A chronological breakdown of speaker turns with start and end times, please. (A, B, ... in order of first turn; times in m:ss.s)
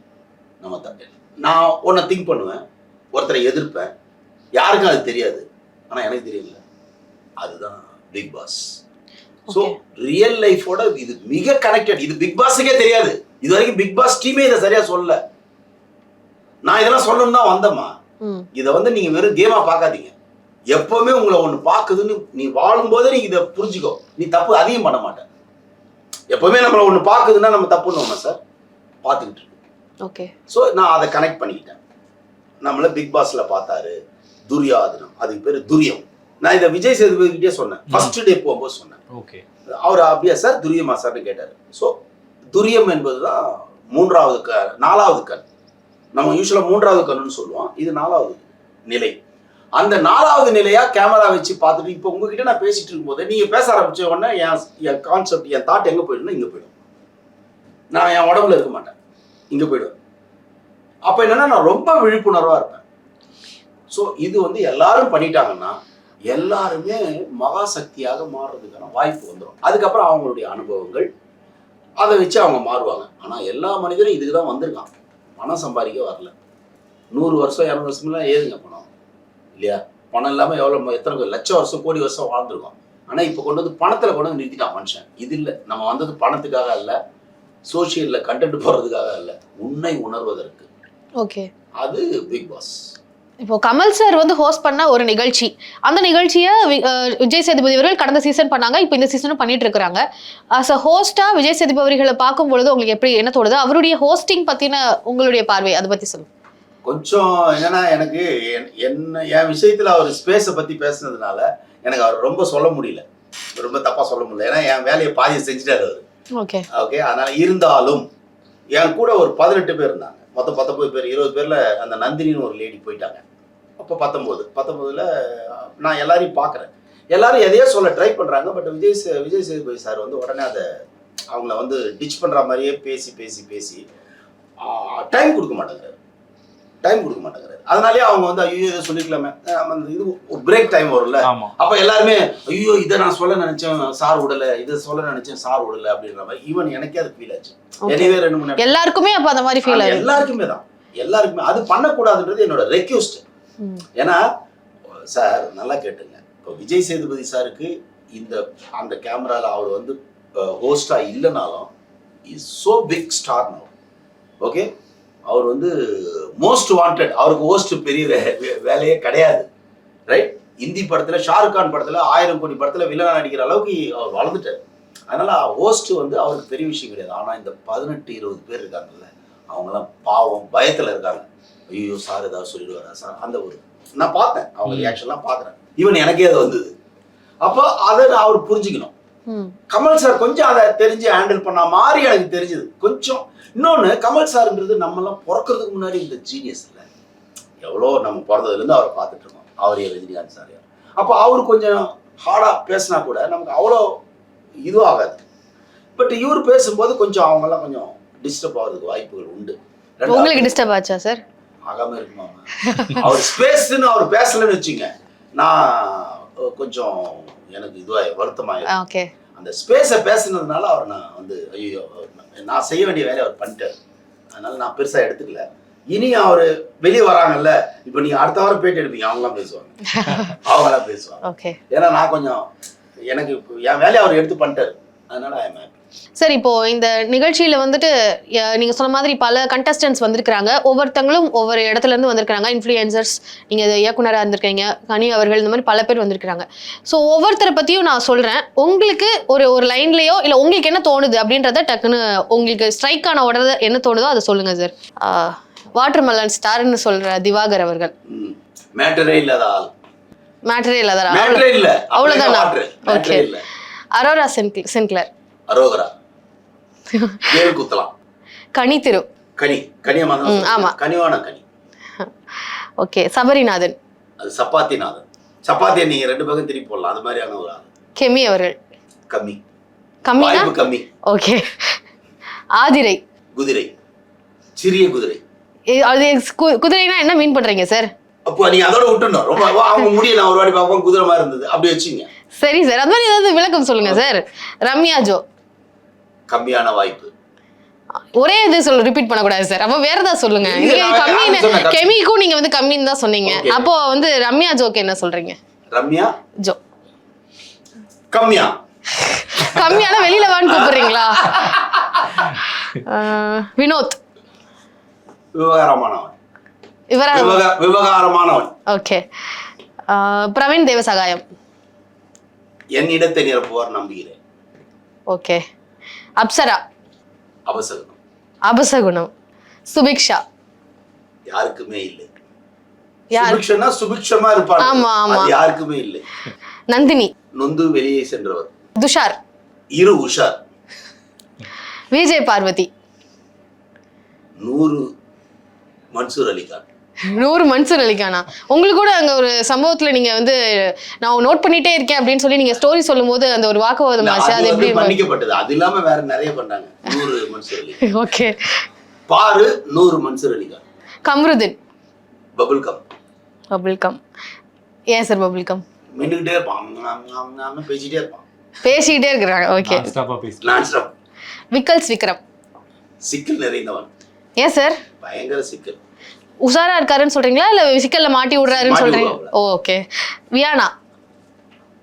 0:00.6-0:02.6 A
0:03.1-0:03.9 A
0:04.6-0:06.6 A
0:07.4-0:08.8 A
0:09.5-0:09.8 B
0:09.5-0:15.2 A
0:16.6-0:18.0 A
0:18.2-0:18.5 B
0:18.5-0:20.1 A
0:20.7-0:25.3 A
0:26.3-0:28.4 A
0:29.0-0:29.6 A
0:30.0-0:30.3 B
0:30.5-0:31.8 A
0:32.6-0:34.0 A
0:34.5-0:39.0 A
0:39.1-0:39.4 C
0:39.7-0:42.0 A
0:42.5-0:45.4 A
0:46.1-0:49.1 A
0:49.8-0:56.7 A
0:57.9-0:59.0 A
0:59.5-1:00.0 A
1:01.1-1:02.8 A
1:03.9-1:11.1 A
1:12.0-1:16.3 A
1:17.1-1:18.9 A
1:19.6-1:27.0 A
1:27.7-1:30.7 A
1:31.2-1:31.5 B
1:31.8-1:32.9 A
1:33.4-1:40.0 B
1:40.6-1:46.3 B
1:46.8-1:53.0 A
1:53.6-1:56.0 A
1:56.4-1:56.7 B
1:56.7-1:58.1 A
1:58.8-2:03.2 A
2:03.8-2:10.8 A
2:11.3-2:13.8 A
2:14.6-2:16.0 A
2:16.8-2:28.8 A
2:21.2-2:21.6 C
2:27.9-2:30.2 B
2:29.6-2:33.2 A
2:34.0-2:34.2 A
2:34.9-2:41.7 A
2:42.2-2:43.7 A
2:44.4-2:44.7 A
2:45.3-2:49.5 A
2:50.1-3:06.7 A
3:04.7-3:05.0 C
3:07.4-3:08.9 A
3:09.3-3:09.6 B
3:09.7-3:16.9 A
3:17.6-3:23.9 A
3:24.6-3:25.2 A
3:26.0-3:30.6 A
3:30.1-3:31.2 B
3:31.7-3:38.7 A
3:32.6-3:33.1 B
3:38.7-3:39.1 B
3:39.4-3:43.8 A
3:44.3-3:52.4 A
3:49.9-3:50.4 B
3:51.2-3:51.6 B
3:53.1-3:55.8 A
3:56.2-4:17.9 B
4:18.1-4:19.7 A
4:20.5-4:23.3 B
4:21.1-4:23.4 A
4:24.0-4:25.1 B
4:25.5-4:25.9 A
4:26.9-4:27.5 B
4:27.3-4:27.9 A
4:28.6-4:29.0 B
4:29.4-4:31.4 A
4:30.2-4:30.8 B
4:32.0-4:33.8 B
4:34.2-4:37.7 A
4:38.0-4:38.6 B
4:39.1-4:39.4 A
4:40.0-4:40.5 B
4:40.2-4:40.9 A
4:41.1-4:41.8 B
4:42.6-4:43.0 B
4:43.4-4:43.7 A
4:44.6-4:45.2 A
4:45.7-4:47.9 B
4:48.3-4:52.1 A
4:52.4-4:55.2 B
4:56.3-4:57.1 A
4:58.1-5:05.4 B
5:00.4-5:02.0 A
5:03.2-5:03.7 A
5:05.7-5:06.2 A
5:08.1-5:08.6 A
5:08.9-5:11.5 B
5:09.4-5:12.4 A
5:12.6-5:14.0 B
5:15.4-5:16.1 A
5:16.9-5:17.4 B
5:17.1-5:18.5 A
5:18.7-5:19.0 B
5:19.9-5:21.2 B
5:22.8-5:24.2 A
5:25.1-5:25.4 B
5:26.2-5:26.6 B
5:27.5-5:28.0 A
5:28.5-5:29.1 B
5:29.7-5:30.2 B
5:31.3-5:32.1 A
5:33.1-5:33.4 B
5:33.1-5:36.0 A
5:34.6-5:35.3 B
5:36.7-5:37.1 B
5:37.4-5:38.5 A
5:38.8-5:39.2 B
5:39.7-5:40.4 A
5:41.9-5:42.7 B
5:44.4-5:44.9 A
5:45.9-5:46.7 A
5:47.1-5:55.0 B
5:54.0-5:57.8 A
5:57.8-5:58.7 B
5:59.1-6:00.6 A
6:01.0-6:01.6 B
6:02.4-6:02.8 A
6:03.5-6:04.0 B
6:04.9-6:05.6 B
6:06.0-6:08.2 A
6:08.6-6:09.9 B
6:09.6-6:10.6 C
6:10.4-6:10.9 A
6:11.5-6:12.2 B
6:13.0-6:13.9 A
6:14.4-6:14.8 B
6:15.0-6:15.8 A
6:16.4-6:20.7 B
6:18.5-6:19.3 A